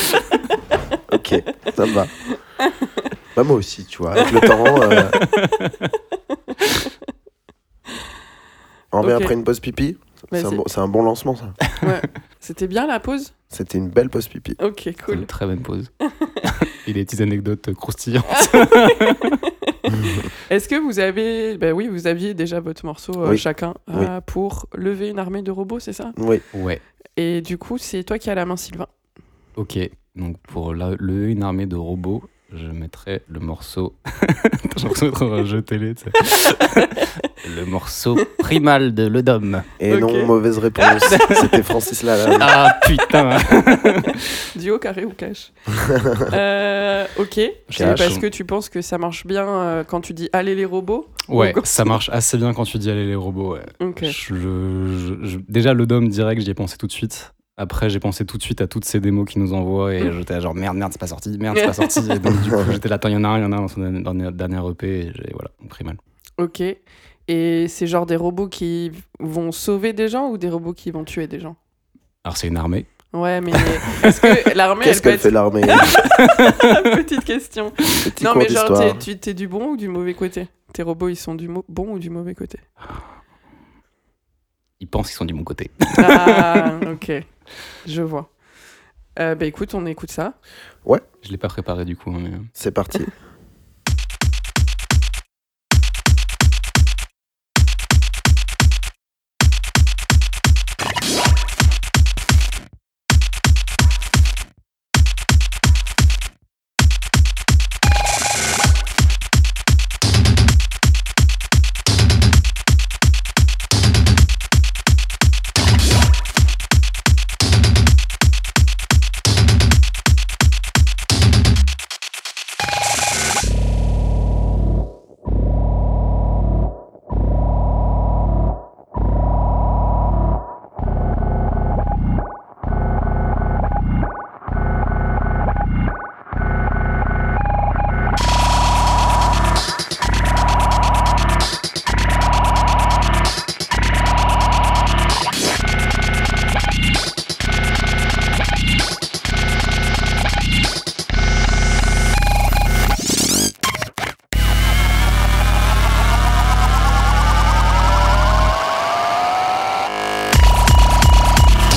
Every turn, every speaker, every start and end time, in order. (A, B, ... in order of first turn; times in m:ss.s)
0:01.1-0:02.1 A
0:02.6-0:02.9 B
0:03.3-0:05.2 A
0:05.1-0:05.9 C
0:06.5-0:06.9 B
0:08.9-0:11.6 A
0:09.0-0:09.3 B
0:10.3-0:10.6 B
0:11.8-0:13.3 B
0:13.5-0:14.6 A
0:14.6-0:15.3 B
0:15.1-0:15.9 C
0:16.0-0:16.5 B
0:16.4-0:19.4 C
0:18.3-0:19.9 B
0:19.9-0:20.3 A
0:20.5-0:26.2 B
0:23.2-0:24.1 A
0:26.2-0:26.4 A
0:26.5-0:26.8 C
0:27.2-0:28.9 B
0:29.6-0:39.7 C
0:36.8-0:37.1 B
0:39.8-0:42.5 A
0:39.9-0:40.3 B
0:41.0-0:41.6 C
0:42.4-0:44.4 C
0:44.0-0:45.5 B
0:45.7-0:46.3 A
0:46.3-0:52.0 B
0:47.7-0:48.2 C
0:47.7-0:48.1 A
0:51.3-1:06.0 C
0:53.8-0:54.2 B
1:01.5-1:02.1 B
1:02.3-1:02.8 A
1:06.4-1:11.6 B
1:12.2-1:12.9 C
1:13.1-1:22.6 B
1:13.5-1:14.5 C
1:14.8-1:15.9 A
1:16.0-1:16.8 C
1:18.0-1:19.0 A
1:24.8-1:26.7 C
1:26.0-1:27.3 B
1:27.8-1:28.3 B
1:29.2-1:30.3 B
1:31.2-1:32.5 C
1:32.6-1:33.1 A